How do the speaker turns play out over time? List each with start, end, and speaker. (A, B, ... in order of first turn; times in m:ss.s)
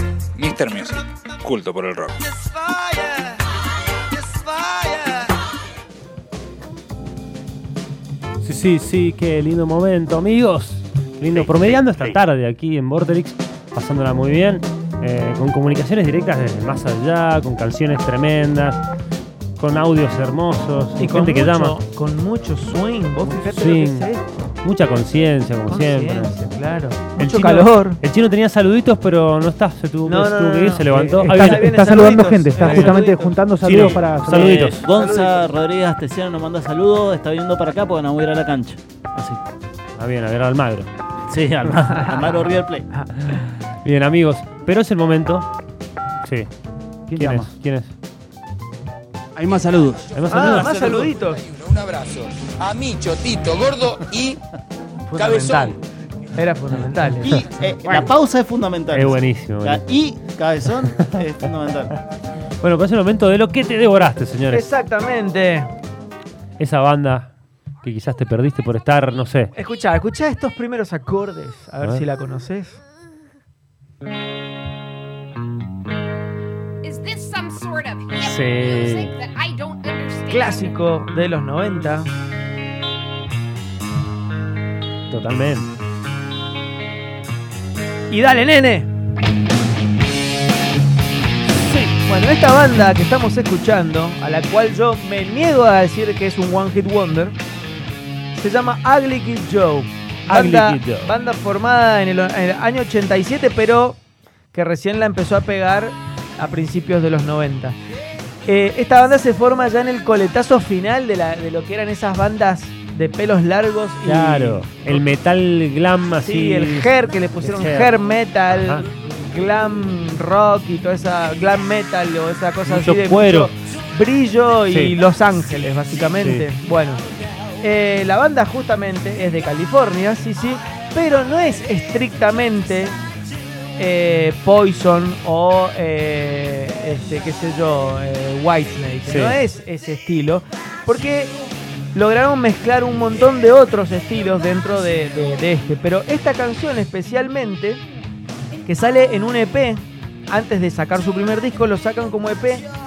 0:00.3-0:02.1 A
0:02.6-0:02.9 B
0:08.4-0:18.8 C
0:19.6-0:21.7 C
0:21.0-0:24.5 B
0:23.4-0:24.1 C
0:24.6-0:26.5 C
0:25.6-0:28.0 B
0:27.2-0:32.0 C
0:30.0-0:33.3 B
0:31.2-0:34.8 D
0:32.6-0:39.4 E
0:32.6-0:33.0 C
0:33.6-0:34.8 C
0:34.9-0:35.5 B
0:40.0-0:40.9 C
0:41.3-0:42.9 E
0:41.7-0:43.1 B
0:43.2-0:45.5 C
0:46.2-0:46.5 C
0:47.1-0:47.5 D
0:47.1-0:47.9 C
0:50.1-0:51.0 C
0:50.3-0:51.4 B
0:50.7-0:51.1 A
0:51.4-0:54.4 F
0:55.1-0:55.8 B
0:56.3-0:57.4 B
0:57.2-1:01.9 E
0:58.9-0:59.8 C
1:02.6-1:04.6 C
1:04.5-1:05.7 B
1:06.6-1:07.3 C
1:07.8-1:09.5 C
1:09.5-1:12.8 B
1:16.8-1:20.8 G
1:18.2-1:19.1 C
1:20.3-1:22.1 B
1:25.1-1:25.7 C
1:28.1-1:28.9 B
1:31.7-1:37.4 B
1:38.3-1:44.0 B
1:40.3-1:41.1 C
1:44.5-1:47.8 B
1:48.4-1:55.0 B
1:54.0-1:57.9 C
1:56.2-2:07.0 B
1:58.5-1:58.8 C
2:02.6-2:03.5 C
2:04.7-2:04.9 C
2:06.2-2:06.4 C
2:07.6-2:13.0 B
2:13.8-2:21.3 B
2:19.1-2:19.4 C
2:21.9-2:27.8 B
2:28.6-2:32.6 B